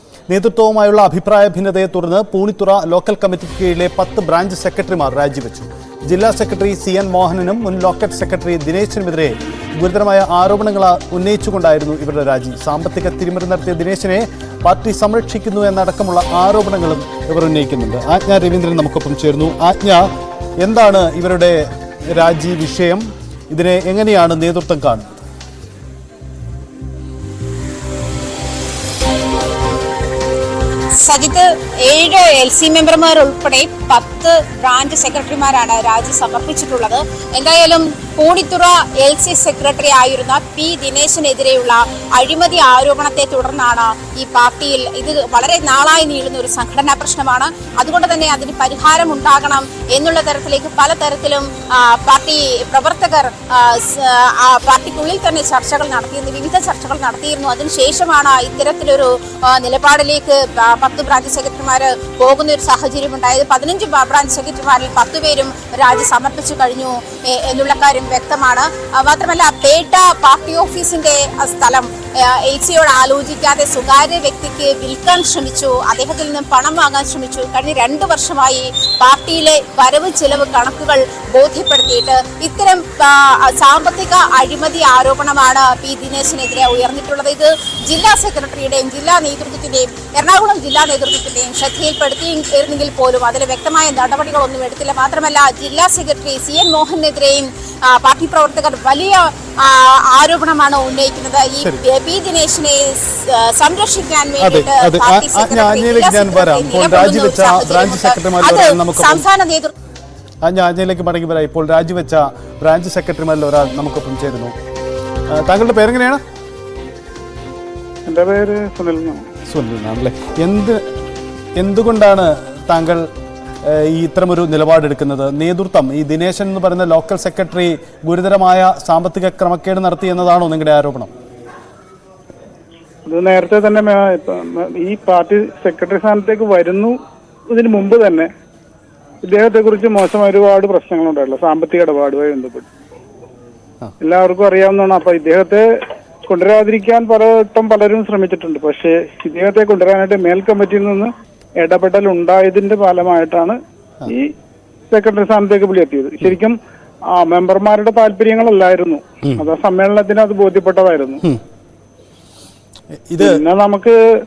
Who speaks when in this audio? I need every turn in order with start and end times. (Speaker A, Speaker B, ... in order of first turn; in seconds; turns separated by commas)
Speaker A: 0.3-25.2, Speaker B: 31.0-109.7, Speaker A: 104.4-109.2, Speaker A: 110.4-114.5, Speaker A: 115.3-116.2, Speaker C: 118.0-119.2, Speaker A: 119.5-120.8, Speaker A: 121.5-123.1, Speaker A: 123.6-131.1, Speaker C: 133.1-136.9, Speaker C: 137.5-138.3, Speaker C: 139.2-142.7, Speaker C: 144.0-145.7, Speaker C: 146.3-154.3, Speaker C: 154.9-156.6, Speaker C: 157.1-161.2, Speaker A: 162.9-163.4, Speaker C: 163.2-163.9